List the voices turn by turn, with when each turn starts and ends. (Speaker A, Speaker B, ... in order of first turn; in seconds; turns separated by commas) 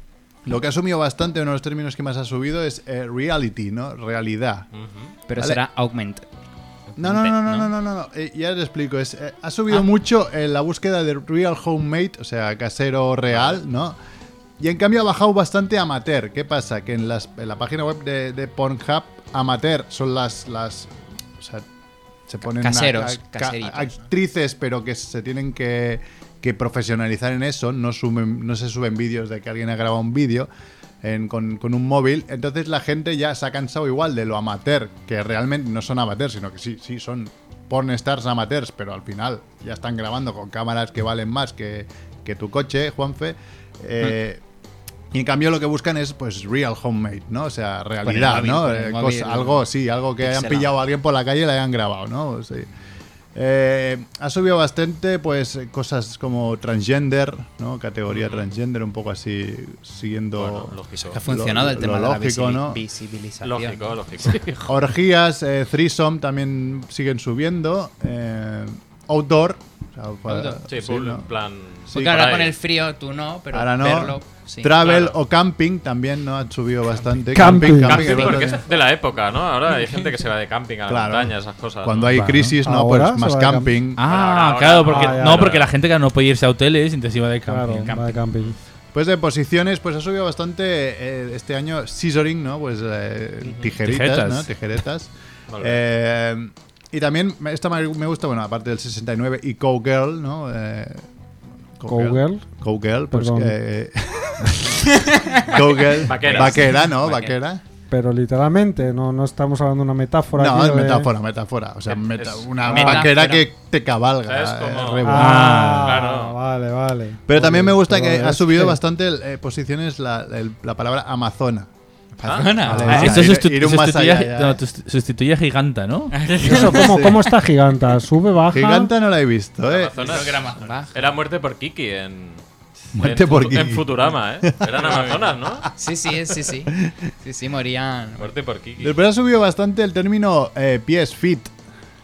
Speaker A: 0.5-4.7, Speaker B: 4.7-5.1, Speaker C: 5.3-6.3, Speaker C: 6.9-7.7, Speaker A: 7.0-14.0, Speaker B: 13.3-13.6, Speaker A: 14.6-21.6, Speaker A: 22.3-30.5, Speaker C: 22.5-24.1, Speaker A: 31.0-44.4, Speaker A: 45.1-52.7, Speaker C: 48.0-49.7, Speaker C: 50.2-50.7, Speaker A: 53.4-62.8, Speaker B: 58.1-58.5, Speaker B: 60.4-61.2, Speaker C: 61.0-64.0, Speaker B: 63.4-64.6, Speaker D: 64.3-64.7, Speaker A: 64.7-71.3, Speaker C: 70.3-70.6, Speaker B: 70.7-72.5, Speaker A: 71.9-72.3, Speaker C: 71.9-74.9, Speaker A: 73.5-78.7, Speaker B: 74.8-75.2, Speaker E: 77.3-78.4, Speaker B: 77.6-82.2, Speaker A: 80.9-84.1, Speaker D: 82.1-82.6, Speaker E: 82.6-83.8, Speaker D: 84.0-88.1, Speaker B: 84.1-85.7, Speaker E: 84.9-85.5, Speaker E: 87.5-88.6, Speaker A: 88.9-101.1, Speaker B: 93.4-93.7, Speaker D: 93.8-94.5, Speaker B: 95.5-95.8, Speaker A: 101.8-107.6, Speaker E: 101.9-102.5, Speaker E: 103.1-103.6, Speaker C: 104.9-107.3, Speaker B: 106.0-106.9, Speaker E: 107.9-111.1, Speaker A: 110.3-115.5, Speaker B: 111.9-113.1, Speaker C: 112.6-113.5, Speaker E: 112.8-113.0, Speaker B: 114.2-115.1, Speaker E: 115.1-118.8, Speaker D: 115.1-116.0, Speaker B: 115.8-116.4, Speaker A: 117.3-121.7, Speaker C: 122.2-123.2, Speaker B: 122.2-122.6, Speaker A: 122.5-124.6, Speaker D: 122.7-126.2, Speaker E: 122.8-123.2, Speaker C: 126.1-127.1, Speaker E: 126.4-128.9, Speaker A: 126.5-127.2, Speaker A: 128.5-130.2, Speaker B: 129.6-132.4, Speaker C: 130.0-131.0, Speaker D: 130.2-130.5, Speaker A: 132.9-133.9, Speaker B: 133.0-135.7, Speaker A: 134.4-135.2, Speaker C: 135.8-138.3, Speaker B: 138.2-139.0, Speaker A: 138.8-141.5